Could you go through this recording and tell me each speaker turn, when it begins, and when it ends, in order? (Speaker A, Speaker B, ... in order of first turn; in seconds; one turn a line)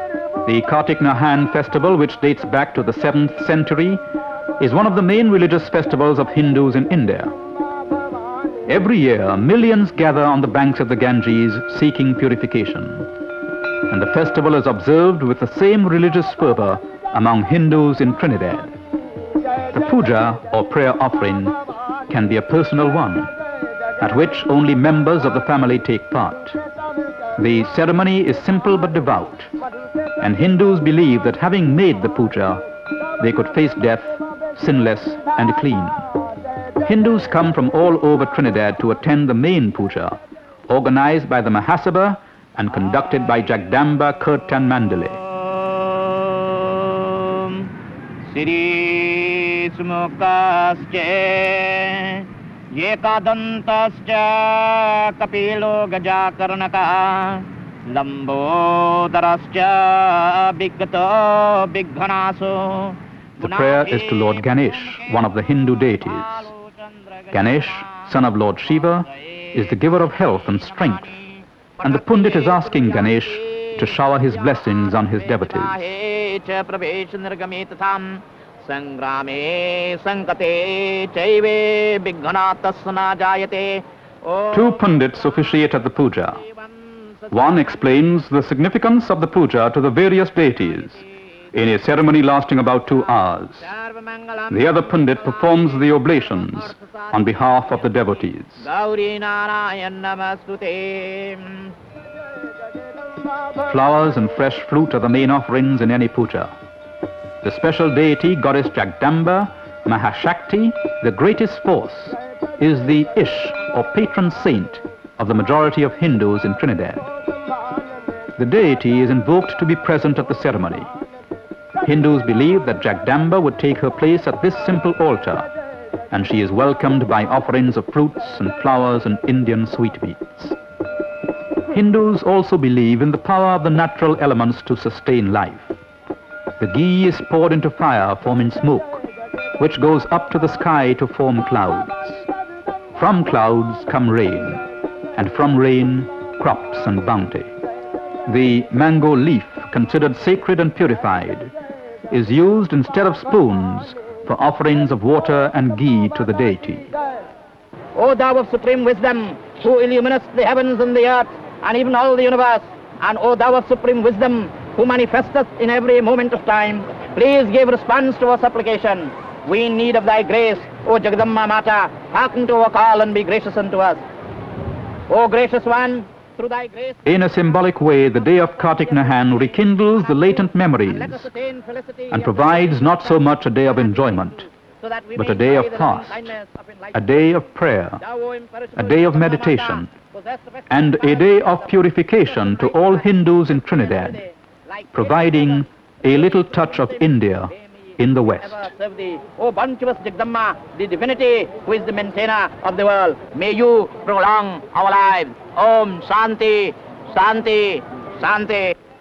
Speaker A: 0.4-4.0
Speaker A: 4.6-7.3
Speaker A: 8.7-13.1
Speaker A: 13.9-18.7
Speaker A: 19.7-23.3
Speaker A: 24.0-26.6
Speaker A: 27.4-29.5
Speaker A: 30.2-32.6
Speaker A: 33.2-36.0
Speaker A: 36.8-45.2
Speaker B: 45.1-47.7
Speaker B: 48.3-65.3
Speaker A: 63.4-66.5
Speaker B: 65.9-68.1
Speaker A: 67.3-71.1
Speaker B: 68.8-84.8
Speaker A: 71.8-75.8
Speaker A: 84.5-86.4
Speaker B: 86.3-87.8
Speaker A: 87.3-93.7
Speaker B: 93.6-98.0
Speaker A: 94.5-98.7
Speaker B: 98.6-101.7
Speaker A: 103.6-106.5
Speaker A: 107.4-117.1
Speaker A: 118.4-120.9
Speaker A: 121.8-125.5
Speaker A: 126.1-130.6
Speaker A: 131.7-135.8
Speaker A: 136.6-139.0
Speaker A: 139.6-142.2
Speaker A: 142.9-144.6
Speaker A: 145.2-147.5
Speaker A: 148.2-151.5
Speaker A: 152.1-156.9
Speaker B: 157.9-174.0
Speaker B: 175.1-177.0
Speaker A: 177.1-181.3
Speaker B: 178.4-187.2
Speaker A: 182.1-184.5
Speaker A: 185.2-186.3
Speaker A: 186.9-188.0
Speaker B: 188.0-195.6
Speaker A: 188.8-189.9
Speaker A: 190.7-194.2
Speaker A: 194.9-198.7
Speaker B: 196.1-197.1
Speaker B: 198.4-208.7